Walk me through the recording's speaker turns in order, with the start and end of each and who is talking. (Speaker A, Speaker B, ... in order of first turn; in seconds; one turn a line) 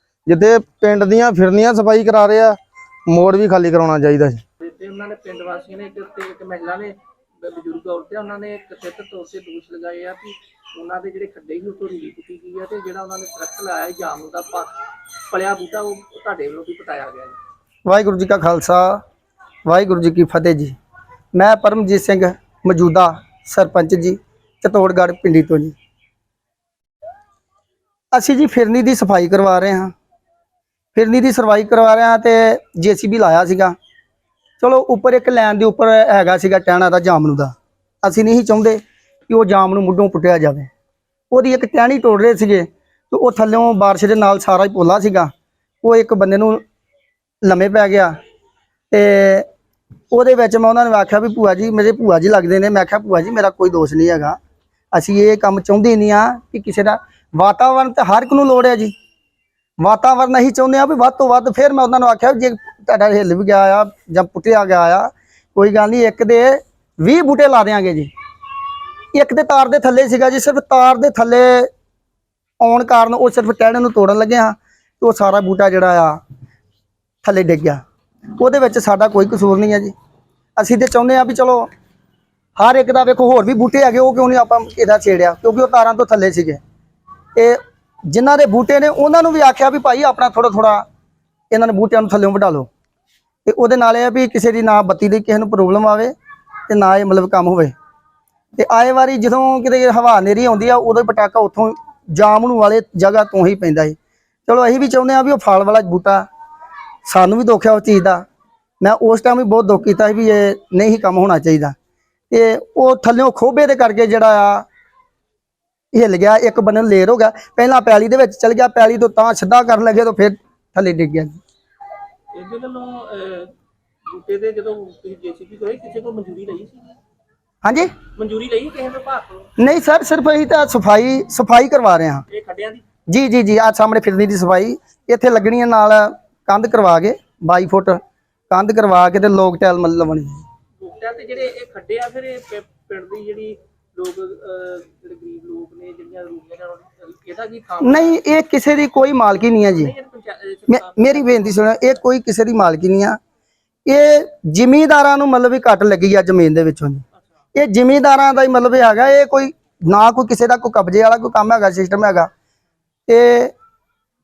Speaker A: 0.3-4.4
Speaker B: 4.6-14.7
Speaker B: 15.3-17.4
Speaker C: 17.9-19.0
Speaker C: 19.7-20.8
Speaker C: 21.3-25.7
Speaker C: 28.1-29.9
Speaker C: 30.9-33.8
Speaker C: 34.6-40.7
Speaker C: 41.3-45.3
Speaker C: 45.8-46.6
Speaker C: 47.4-48.1
Speaker C: 48.9-49.5
Speaker C: 50.1-54.4
Speaker C: 54.9-58.9
Speaker C: 59.8-68.1
Speaker C: 69.1-71.7
Speaker C: 72.6-76.2
Speaker C: 77.2-77.8
Speaker C: 78.4-79.9
Speaker C: 80.6-81.7
Speaker C: 82.6-86.6
Speaker C: 88.1-90.8
Speaker C: 91.5-92.7
Speaker C: 93.5-96.1
Speaker C: 96.7-97.7
Speaker C: 98.6-104.0
Speaker C: 104.5-106.2
Speaker C: 107.1-108.2
Speaker C: 108.8-111.8
Speaker C: 112.3-114.7
Speaker C: 115.9-121.4
Speaker B: 122.3-123.5
Speaker B: 124.1-126.9
Speaker C: 127.6-127.9
Speaker B: 128.2-129.5
Speaker C: 129.6-132.2
Speaker B: 132.3-132.8
Speaker C: 133.1-138.0
Speaker C: 138.5-140.4
Speaker B: 140.8-148.2
Speaker C: 147.8-149.9
Speaker B: 149.8-151.6
Speaker C: 150.7-153.2
Speaker C: 153.9-157.0
Speaker C: 157.6-162.3
Speaker C: 163.1-163.5